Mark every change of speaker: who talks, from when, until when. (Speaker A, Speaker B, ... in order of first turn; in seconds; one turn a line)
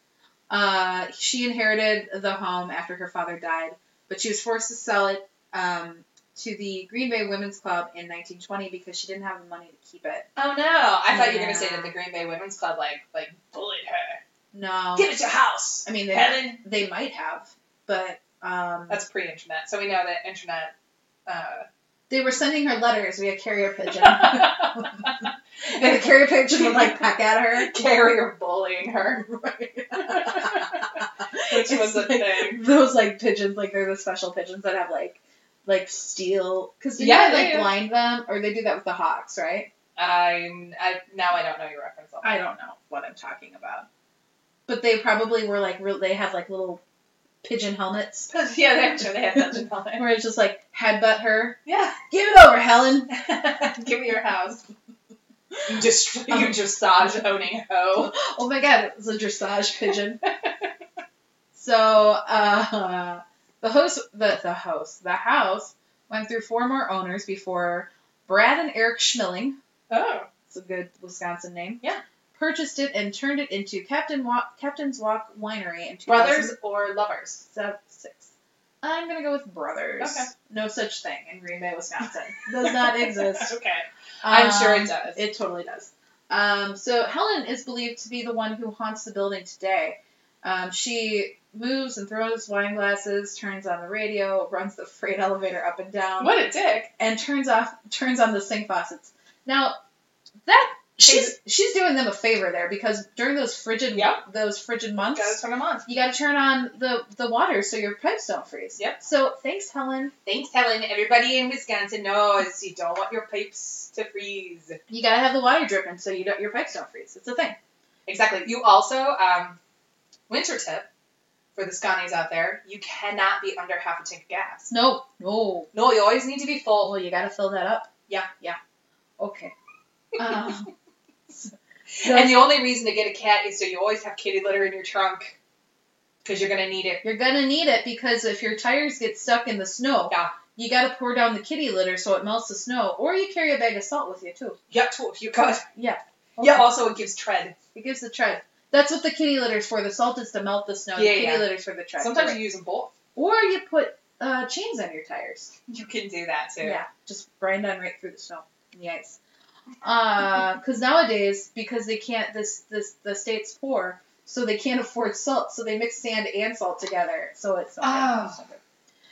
Speaker A: 0.5-10.3
Speaker B: 10.4-14.2
Speaker A: 11.1-11.9
Speaker A: 14.5-15.1
Speaker B: 14.9-16.6
Speaker A: 15.8-19.0
Speaker B: 18.9-20.7
Speaker B: 21.3-21.7
Speaker A: 22.1-25.1
Speaker B: 24.0-25.1
Speaker A: 25.7-27.7
Speaker B: 26.5-27.0
Speaker B: 27.6-29.3
Speaker A: 29.2-39.7
Speaker B: 30.0-32.6
Speaker B: 37.0-37.7
Speaker B: 40.0-42.4
Speaker A: 42.2-43.9
Speaker A: 44.7-46.8
Speaker A: 47.4-48.3
Speaker B: 48.3-50.1
Speaker A: 50.0-51.6
Speaker B: 51.7-52.0
Speaker A: 52.1-53.1
Speaker B: 53.1-54.7
Speaker B: 55.7-58.1
Speaker A: 56.3-56.6
Speaker A: 58.0-60.2
Speaker A: 61.5-69.6
Speaker B: 69.9-70.3
Speaker A: 70.5-71.8
Speaker A: 72.3-76.5
Speaker B: 76.1-77.4
Speaker A: 77.5-83.5
Speaker B: 80.0-80.3
Speaker B: 82.6-85.2
Speaker A: 84.2-96.3
Speaker B: 96.2-96.9
Speaker A: 97.0-99.8
Speaker A: 100.5-110.1
Speaker B: 101.1-101.3
Speaker B: 103.9-104.2
Speaker B: 105.1-105.8
Speaker B: 110.3-114.8
Speaker A: 114.9-117.6
Speaker B: 118.1-119.6
Speaker B: 120.3-120.9
Speaker B: 121.5-124.7
Speaker A: 124.7-125.7
Speaker B: 125.7-126.9
Speaker A: 126.8-128.6
Speaker A: 129.2-129.5
Speaker A: 130.2-130.7
Speaker A: 131.3-132.5
Speaker B: 132.0-135.4
Speaker B: 136.2-137.0
Speaker A: 137.0-144.6
Speaker B: 144.7-145.7
Speaker A: 145.8-146.8
Speaker B: 146.4-147.6
Speaker A: 147.7-152.4
Speaker B: 150.9-152.9
Speaker A: 153.2-155.5
Speaker B: 155.7-156.8
Speaker A: 156.6-159.2
Speaker A: 159.8-168.6
Speaker B: 167.8-168.4